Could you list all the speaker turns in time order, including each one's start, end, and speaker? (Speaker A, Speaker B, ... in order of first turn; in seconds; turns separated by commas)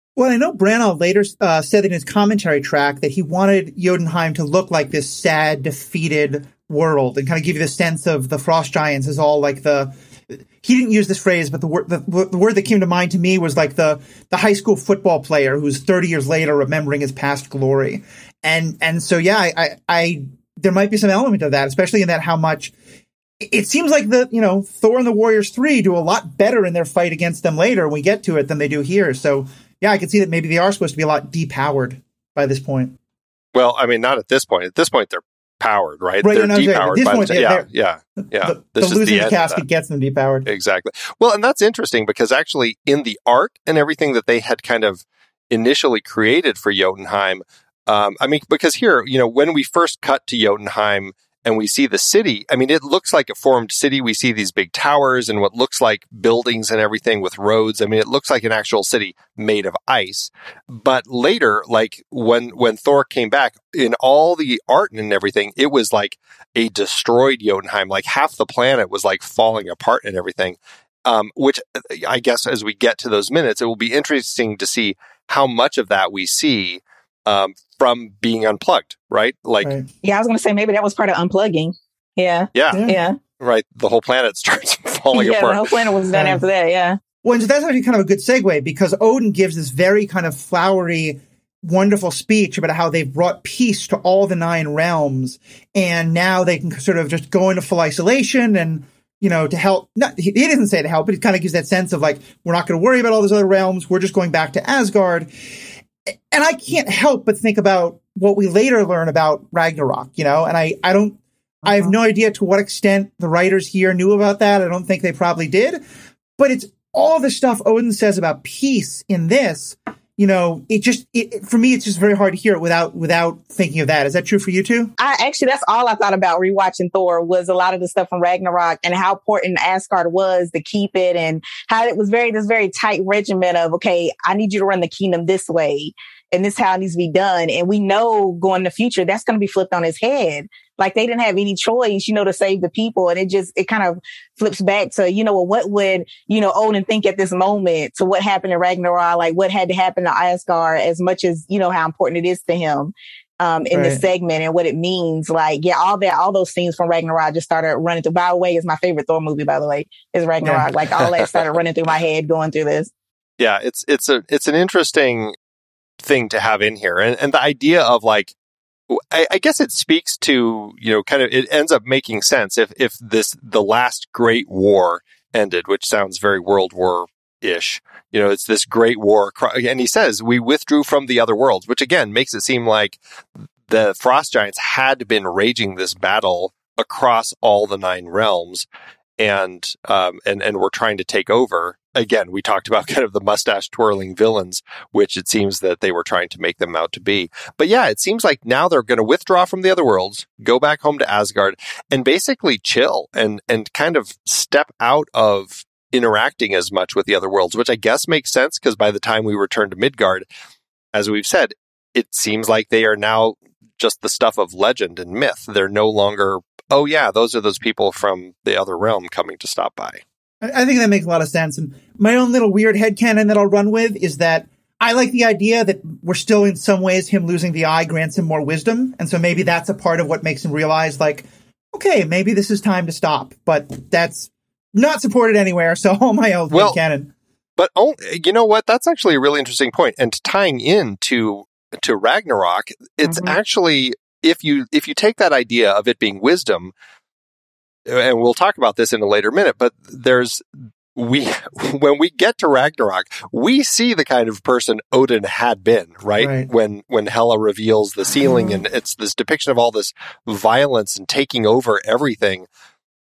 Speaker A: 0.2-9.9, Speaker A: 10.6-22.7, Speaker A: 23.4-33.0, Speaker B: 33.5-39.6, Speaker A: 36.2-37.7, Speaker A: 38.4-40.5, Speaker B: 40.5-79.7, Speaker C: 80.0-83.2, Speaker B: 82.5-82.9, Speaker A: 82.7-83.0, Speaker B: 83.4-85.7, Speaker C: 85.1-87.0, Speaker A: 86.1-86.4, Speaker A: 87.2-105.3, Speaker A: 106.3-115.8, Speaker A: 116.4-124.9, Speaker C: 125.0-162.9, Speaker A: 153.7-154.0, Speaker A: 160.4-160.7, Speaker B: 163.4-165.3, Speaker B: 166.0-168.3, Speaker B: 168.9-183.0, Speaker B: 183.7-188.7, Speaker B: 189.2-210.3, Speaker B: 210.9-220.0, Speaker A: 220.4-237.1, Speaker B: 236.5-236.8, Speaker B: 237.6-246.7, Speaker C: 243.1-243.3, Speaker B: 247.9-250.4, Speaker B: 250.9-262.5, Speaker A: 256.2-256.5, Speaker A: 258.2-258.6